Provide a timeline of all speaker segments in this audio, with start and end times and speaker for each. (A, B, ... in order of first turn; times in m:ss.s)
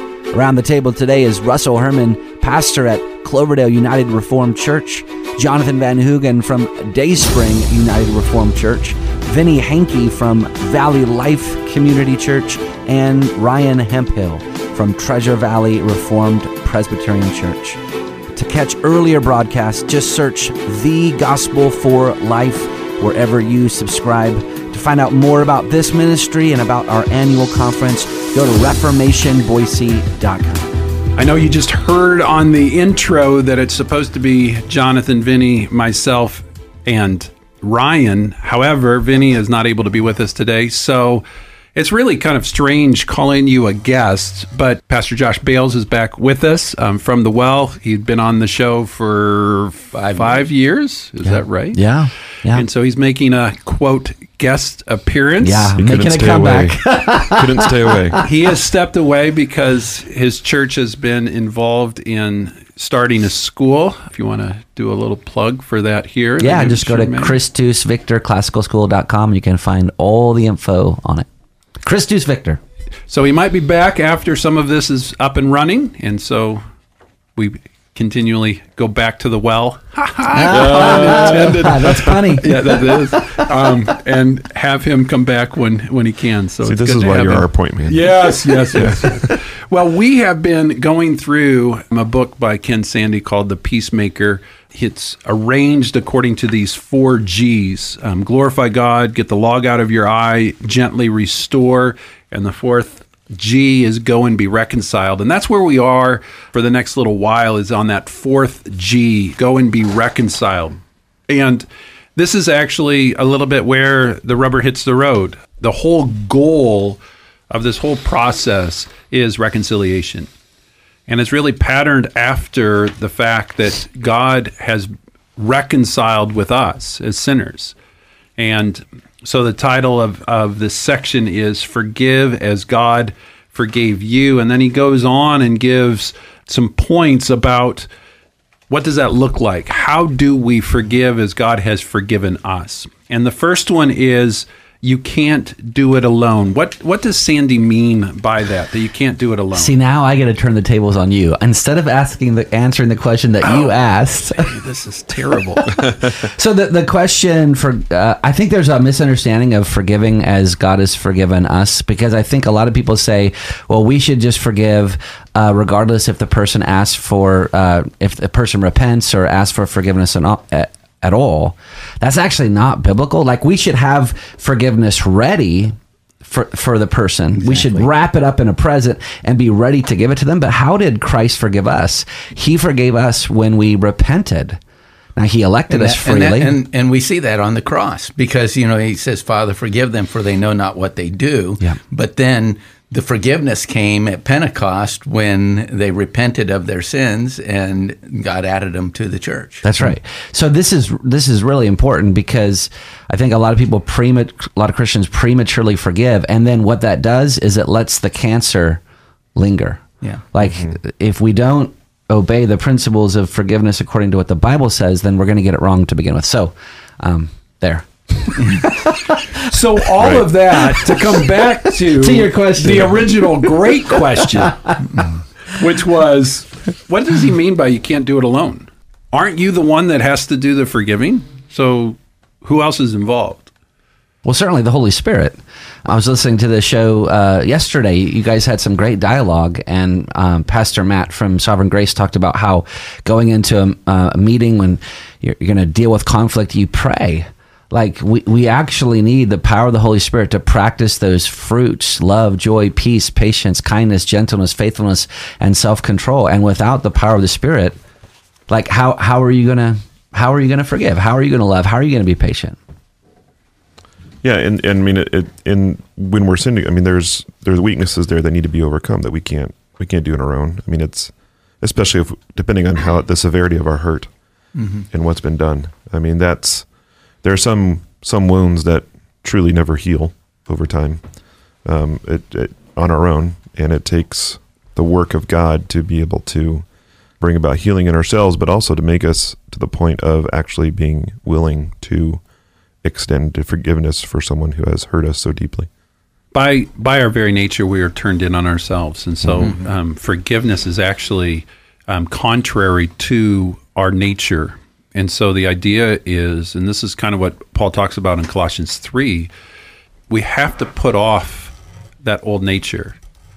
0:00.3-0:17.8 A
0:18.3-0:30.7 A
0:31.2-0:41.2 B
0:41.7-0:51.8 B
0:49.9-0:50.4 C
0:51.2-0:52.6 A
0:52.5-0:55.7 B
0:55.4-0:57.6 A
0:55.7-0:58.2 D
0:58.2-1:07.3 B
1:06.4-1:11.3 A
1:11.8-1:12.6 A
1:13.1-1:16.6 B
1:17.4-2:00.3 B
1:20.3-1:22.8 A
1:20.5-1:22.4 D
1:26.6-1:29.4 D
2:01.1-2:07.8 B
2:08.4-2:17.9 B
2:18.7-2:29.7 B
2:29.5-2:34.5 A
2:33.4-2:33.8 B
2:34.3-2:35.8 B
2:35.8-3:04.6 A
2:57.3-2:57.9 C
3:05.2-3:06.5 A
3:05.7-3:19.6 C
3:19.6-3:28.8 A
3:29.4-3:39.2 A
3:30.4-3:30.8 D
3:39.5-3:44.8 B
3:40.0-3:40.3 D
3:41.9-3:43.1 A
3:45.5-3:53.5 B
3:54.2-4:17.8 A
4:18.5-4:22.6 A
4:24.2-4:34.1 D
4:34.6-4:34.8 C
4:34.9-4:46.7 D
4:47.2-4:52.2 D
4:52.8-4:55.7 D
4:56.3-5:09.3 B
4:59.2-4:59.5 D
5:10.1-5:13.0 B